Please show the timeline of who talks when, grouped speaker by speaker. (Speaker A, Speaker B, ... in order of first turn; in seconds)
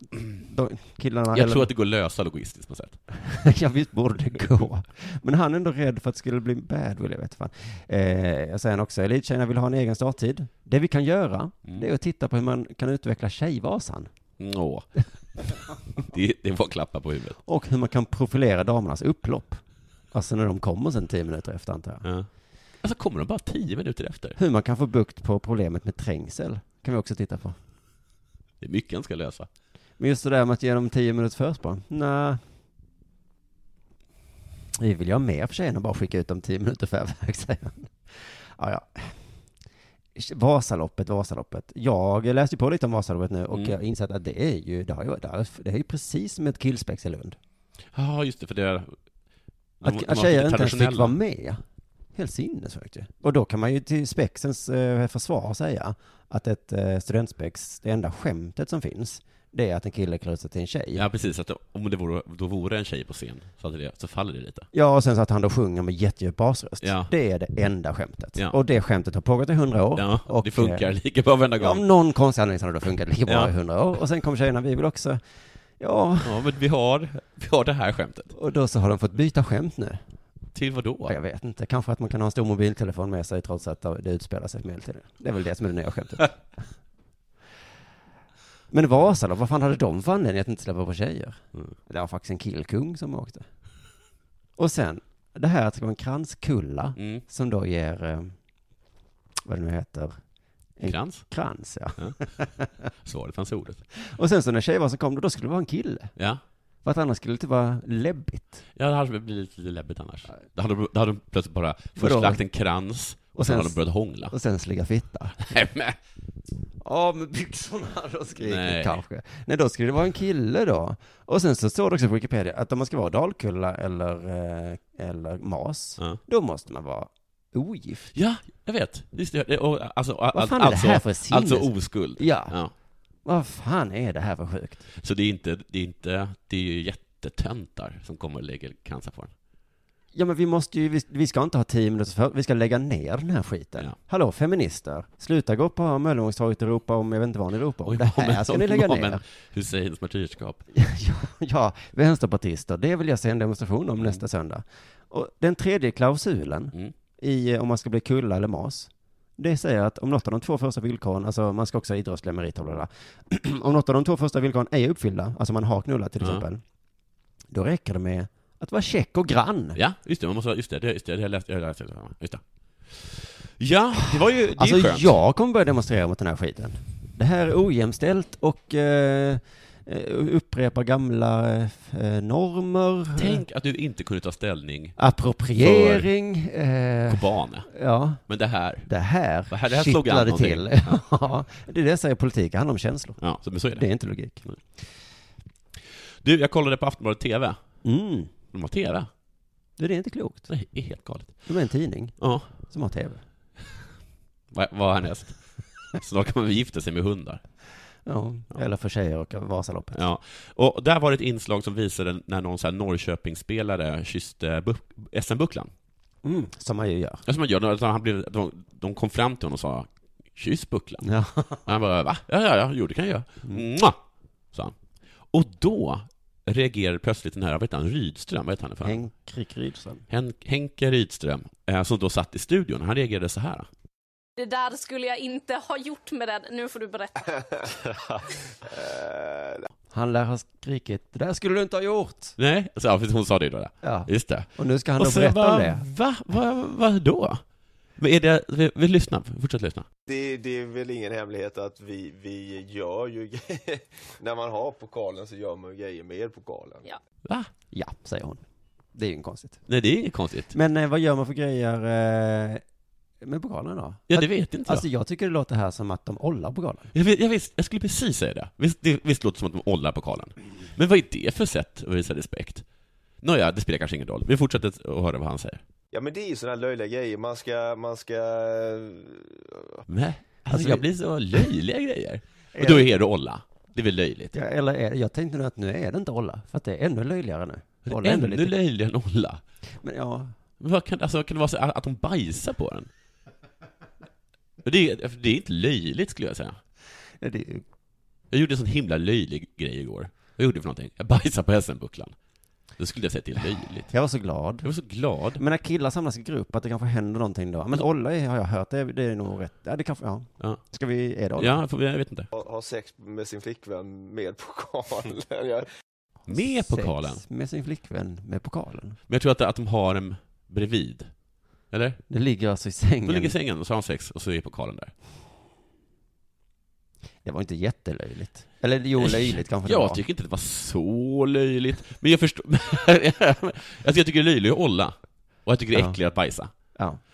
Speaker A: 0.3-1.7, 3.2-14.1, 17.4-19.6, 20.1-22.0, 24.4-27.6, 30.0-32.4, 34.7-39.1, 40.1-47.4, 49.8-51.6, 52.1-61.0, 64.7-70.9, 71.6-75.2, 75.8-76.4, 78.3-80.0, 81.1-86.4, 88.7-93.4, 94.6-98.3, 99.4-100.2, 100.8-102.7, 104.0-106.1, 106.8-108.6, 112.0-112.4, 113.3-113.8, 114.3-115.4, 116.8-128.1, 130.3-132.6, 133.2-134.8, 140.1-149.2, 150.7-166.6, 167.5-169.8, 174.6-183.4, 185.0-188.2, 188.8-193.2, 193.7-194.4, 197.8-198.3, 199.8-200.5, 201.5-203.2, 208.1-210.0, 216.2-217.2, 221.0-221.6, 228.8-230.0, 239.9-242.3, 243.8-245.8, 257.7-258.4, 258.9-259.6, 260.5-262.6, 263.2-266.9, 280.5-280.8, 282.5-282.9, 284.3-288.5, 289.8-290.3, 297.2-297.6, 303.9-304.7, 305.3-311.6, 316.3-319.0, 322.1-323.3, 327.2-330.0
Speaker B: 1.3-3.0, 14.4-15.0, 15.9-17.4, 22.8-24.4, 28.6-29.5, 47.9-48.9, 49.8-51.1, 60.9-64.7, 66.8-67.1, 70.0-71.8, 73.3-73.5, 76.2-78.3, 80.5-81.2, 97.0-97.2, 100.8-101.2, 103.0-103.8, 108.8-114.3, 115.4-116.0, 118.4-119.0, 128.1-132.7, 135.0-139.3, 147.8-150.6, 169.8-175.1, 183.2-184.9, 185.6-186.1, 187.1-187.7, 188.3-188.9, 189.5-191.0, 193.2-193.9, 196.2-197.6, 198.5-199.1, 200.5-201.4, 202.2-202.5, 204.5-205.4, 205.9-207.4, 209.9-215.7, 217.2-221.1, 221.7-223.9, 225.3-229.0, 230.1-233.7, 242.4-247.4, 248.0-249.8, 259.7-260.5, 264.1-264.8, 266.9-272.6, 273.2-275.6, 279.9-284.4, 287.9-289.4, 290.6-292.9, 294.6-296.6, 298.3-302.1, 302.8-303.9, 304.6-305.4, 311.4-312.3, 316.3-317.2, 319.1-321.1, 321.7-322.0, 323.1-324.9, 329.0-334.9, 335.4-336.5
Speaker C: 234.4-237.7
Speaker D: 238.1-239.7, 250.1-256.9, 275.9-279.7, 312.3-315.7